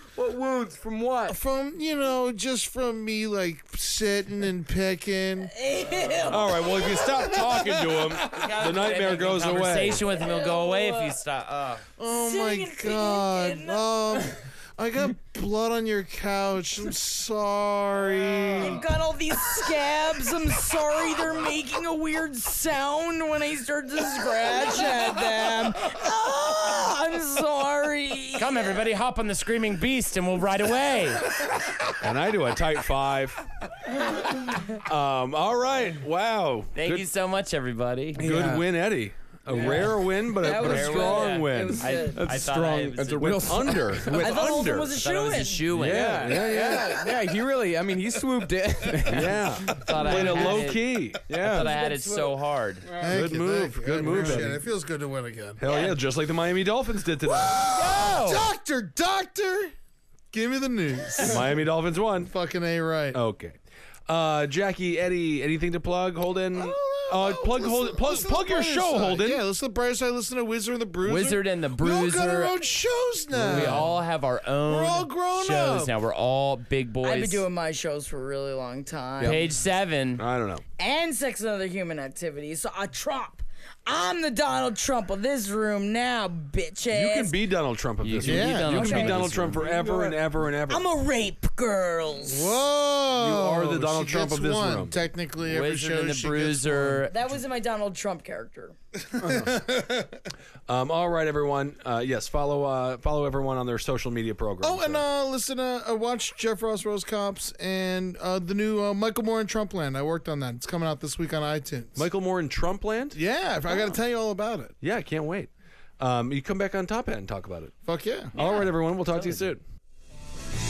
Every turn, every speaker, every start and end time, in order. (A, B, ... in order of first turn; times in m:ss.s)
0:00.2-0:01.4 A
0:01.3-0:05.5 B
0:05.5-0:06.8 C
0:06.2-0:10.0 D
0:06.9-0:08.5 B
0:08.2-0:11.8 E
0:10.0-0:11.2 C
0:12.0-0:18.8 B
0:12.1-0:13.8 C
0:18.6-0:28.6 C
0:28.4-0:31.5 E
0:32.0-0:33.4 D
0:34.8-0:37.1 D
0:36.7-0:38.3 E
0:38.2-0:38.6 A
0:38.2-0:41.9 D
0:39.5-0:43.8 E
0:39.5-0:42.3 C
0:42.0-0:44.4 A
0:43.2-0:45.0 D
0:44.2-0:45.7 C
0:44.8-0:46.5 E
0:45.7-0:47.1 D
0:45.8-0:50.8 A
0:49.1-0:51.2 D
0:49.6-0:52.8 E
0:51.3-0:51.7 A
0:51.6-0:52.3 C
0:53.0-0:55.6 B
0:53.0-0:54.6 D
0:55.6-0:57.6 D
0:55.7-0:56.0 E
0:57.2-0:59.7 B
0:57.3-0:58.5 E
1:00.3-1:01.6 B
1:01.2-1:02.3 D
1:02.2-1:03.2 B
1:03.1-1:09.4 D
1:06.5-1:14.0 B
1:11.0-1:12.6 E
1:13.3-1:17.5 E
1:13.5-1:13.8 D
1:14.6-1:15.9 B
1:17.0-1:19.4 C
1:19.2-1:20.2 E
1:20.2-1:20.6 D
1:20.8-1:27.4 C
1:26.9-1:30.9 D
1:28.0-1:29.7 E
1:28.2-1:29.2 B
1:28.8-1:30.2 A
1:30.7-1:32.6 C
1:32.2-1:37.1 B
1:33.2-1:35.0 D
1:35.4-1:37.1 E
1:37.1-1:38.8 C
1:39.1-1:40.2 B
1:39.2-1:39.5 D
1:40.7-1:45.0 D
1:44.6-1:52.1 B
1:52.0-1:53.2 D
1:53.1-1:54.7 B
1:54.8-1:57.7 D
1:57.8-1:58.3 B
1:58.3-1:59.6 D